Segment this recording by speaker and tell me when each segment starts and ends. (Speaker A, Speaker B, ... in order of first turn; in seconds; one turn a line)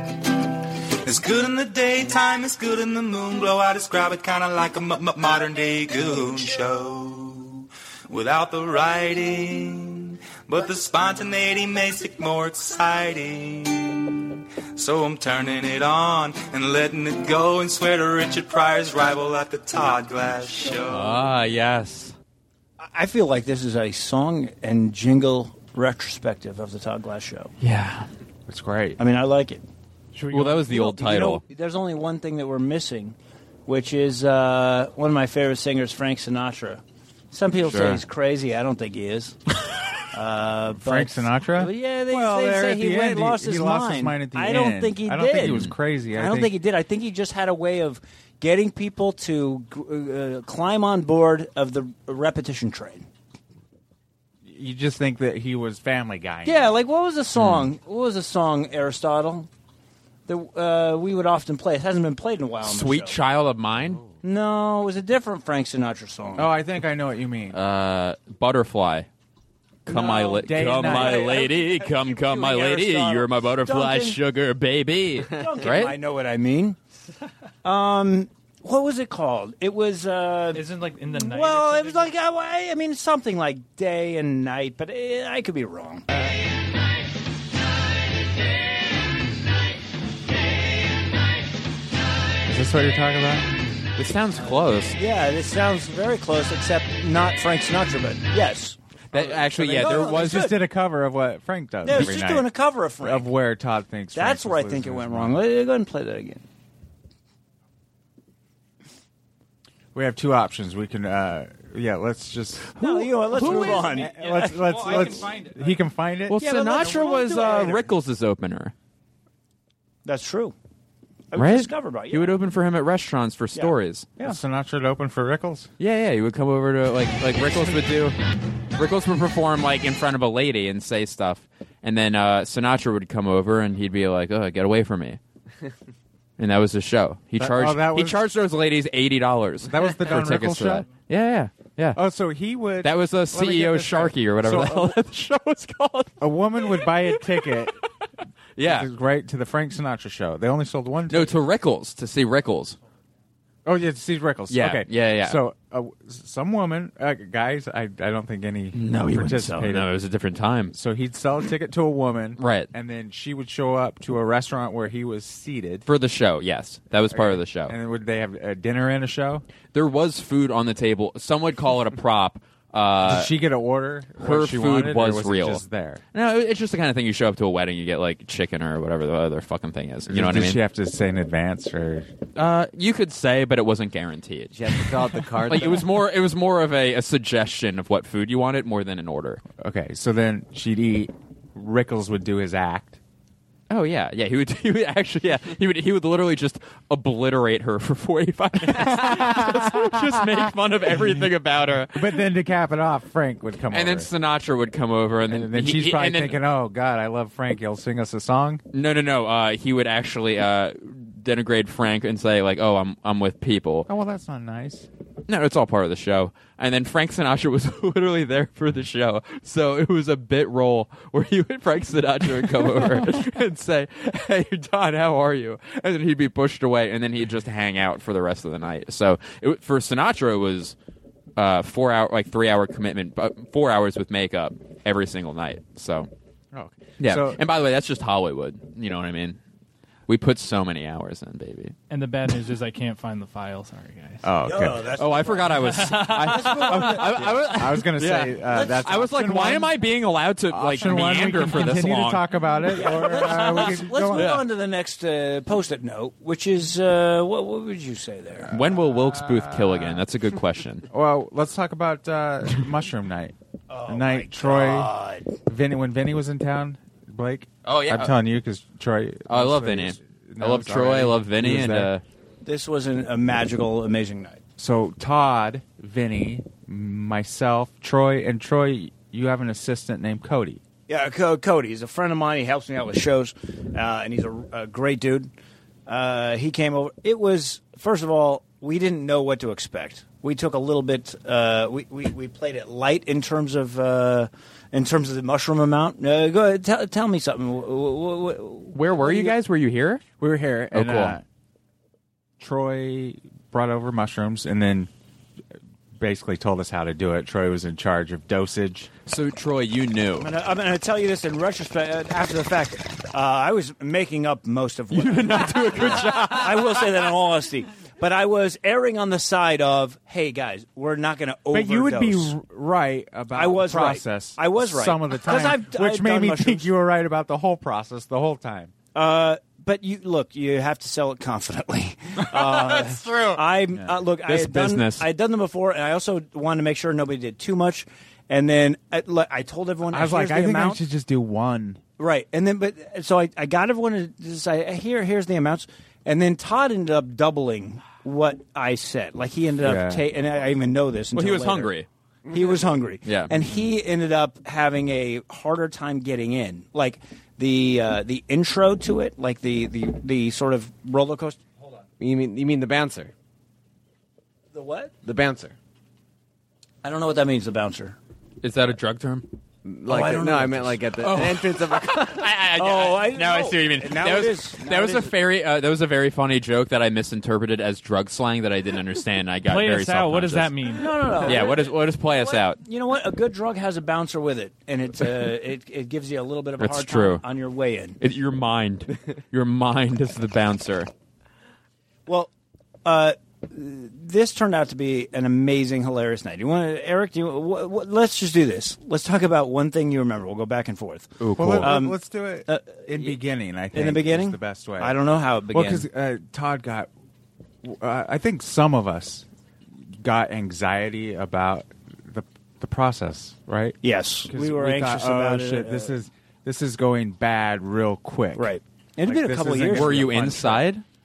Speaker A: 1.0-14.2
Speaker A: 14.7-21.2
Speaker B: 20.9-22.1
Speaker C: 22.8-27.5
Speaker B: 27.6-28.1
Speaker D: 28.5-29.0
Speaker C: 29.0-29.6
Speaker E: 30.1-30.7
Speaker B: 30.3-31.4
Speaker C: 30.6-39.4
Speaker B: 37.7-38.0
Speaker C: 40.1-53.1
Speaker D: 40.7-46.5
Speaker B: 45.4-45.7
Speaker D: 54.4-56.6
Speaker C: 56.4-59.5
Speaker B: 57.4-57.6
Speaker C: 60.3-63.2
Speaker B: 62.6-64.0
Speaker C: 64.2-66.5
Speaker D: 66.4-67.6
Speaker B: 67.5-69.1
Speaker B: 69.8-75.9
Speaker D: 69.9-71.4
Speaker C: 70.7-74.2
Speaker C: 75.3-76.8
Speaker C: 77.6-86.3
Speaker E: 80.5-82.1
Speaker D: 92.5-93.5
Speaker B: 94.0-95.0
Speaker C: 94.9-100.6
Speaker B: 99.1-100.5
Speaker D: 99.5-102.5
Speaker C: 101.8-103.3
Speaker D: 103.0-105.4
Speaker C: 104.1-106.4
Speaker D: 109.9-112.8
Speaker C: 112.8-115.3
Speaker B: 112.8-113.9
Speaker D: 113.3-116.4
Speaker E: 113.5-115.8
Speaker B: 116.3-118.7
Speaker C: 116.4-117.9
Speaker C: 120.0-120.5
Speaker C: 121.3-122.4
Speaker B: 121.3-124.1
Speaker C: 123.5-124.4
Speaker D: 124.2-125.7
Speaker B: 125.8-128.2
Speaker B: 128.8-135.2
Speaker B: 136.4-142.0
Speaker D: 137.4-138.2
Speaker D: 139.7-140.9
Speaker D: 141.9-145.0
Speaker B: 142.8-147.6
Speaker D: 146.2-147.7
Speaker B: 148.6-148.9
Speaker D: 148.6-151.3
Speaker B: 151.1-152.8
Speaker D: 153.6-159.9
Speaker B: 154.5-155.4
Speaker B: 158.7-160.7
Speaker D: 160.7-165.8
Speaker B: 162.4-162.7
Speaker B: 165.9-167.7
Speaker D: 167.1-169.4
Speaker B: 169.7-173.3
Speaker D: 173.0-176.0
Speaker B: 174.2-175.6
Speaker B: 176.1-180.6
Speaker D: 180.1-182.1
Speaker B: 182.3-189.4
Speaker F: 184.5-185.9
Speaker D: 189.6-193.0
Speaker B: 193.7-202.2
Speaker D: 198.6-200.2
Speaker D: 200.9-201.2
Speaker D: 201.9-204.1
Speaker B: 203.7-206.4
Speaker D: 205.3-208.6
Speaker B: 208.7-213.9
Speaker D: 213.9-214.9
Speaker B: 215.3-230.8
Speaker B: 231.3-236.1
Speaker D: 236.5-237.4
Speaker B: 237.0-239.4
Speaker B: 240.1-241.7
Speaker E: 241.9-244.3
Speaker D: 244.2-244.8
Speaker C: 244.4-247.4
Speaker B: 245.0-252.2
Speaker E: 245.7-246.7
Speaker D: 247.1-249.8
Speaker C: 248.5-249.0
Speaker D: 250.5-254.4
Speaker C: 252.7-258.5
Speaker B: 252.8-254.4
Speaker B: 258.5-260.9
Speaker D: 258.6-260.0
Speaker D: 260.9-263.3
Speaker C: 263.7-265.3
Speaker D: 263.9-264.9
Speaker D: 265.4-271.9
Speaker B: 267.6-268.1
Speaker B: 269.3-272.0
Speaker C: 272.4-274.4
Speaker D: 274.6-280.6
Speaker C: 280.9-285.3
Speaker C: 285.9-299.3
Speaker B: 298.7-300.0
Speaker D: 300.2-301.2
Speaker B: 300.7-301.2
Speaker D: 302.4-304.9
Speaker D: 305.9-308.9
Speaker B: 309.1-310.3
Speaker C: 310.2-322.3
Speaker B: 314.9-316.9
Speaker D: 321.5-328.7
Speaker C: 323.3-326.7
Speaker C: 328.9-340.8
Speaker B: 334.2-335.1
Speaker D: 339.9-341.8
Speaker C: 342.0-351.7
Speaker D: 349.6-350.0
Speaker B: 351.1-351.9
Speaker C: 352.3-361.4
Speaker B: 353.0-353.3
Speaker F: 362.0-363.1
Speaker C: 364.5-364.9
Speaker F: 365.0-365.5
Speaker C: 366.8-368.0
Speaker B: 368.4-369.3
Speaker F: 369.6-372.2
Speaker C: 369.9-370.7
Speaker B: 371.0-380.5
Speaker C: 372.6-375.1
Speaker E: 379.4-380.9
Speaker C: 380.7-388.0
Speaker B: 381.2-382.6
Speaker B: 386.6-387.2
Speaker B: 388.0-390.9
Speaker C: 392.8-403.2
Speaker B: 401.2-401.7
Speaker D: 401.4-404.9
Speaker C: 403.7-405.9
Speaker D: 405.5-406.9
Speaker D: 407.6-409.2
Speaker D: 410.0-413.8
Speaker C: 413.8-415.9
Speaker D: 414.3-418.5
Speaker C: 418.4-420.1
Speaker D: 419.1-420.6
Speaker B: 419.7-420.8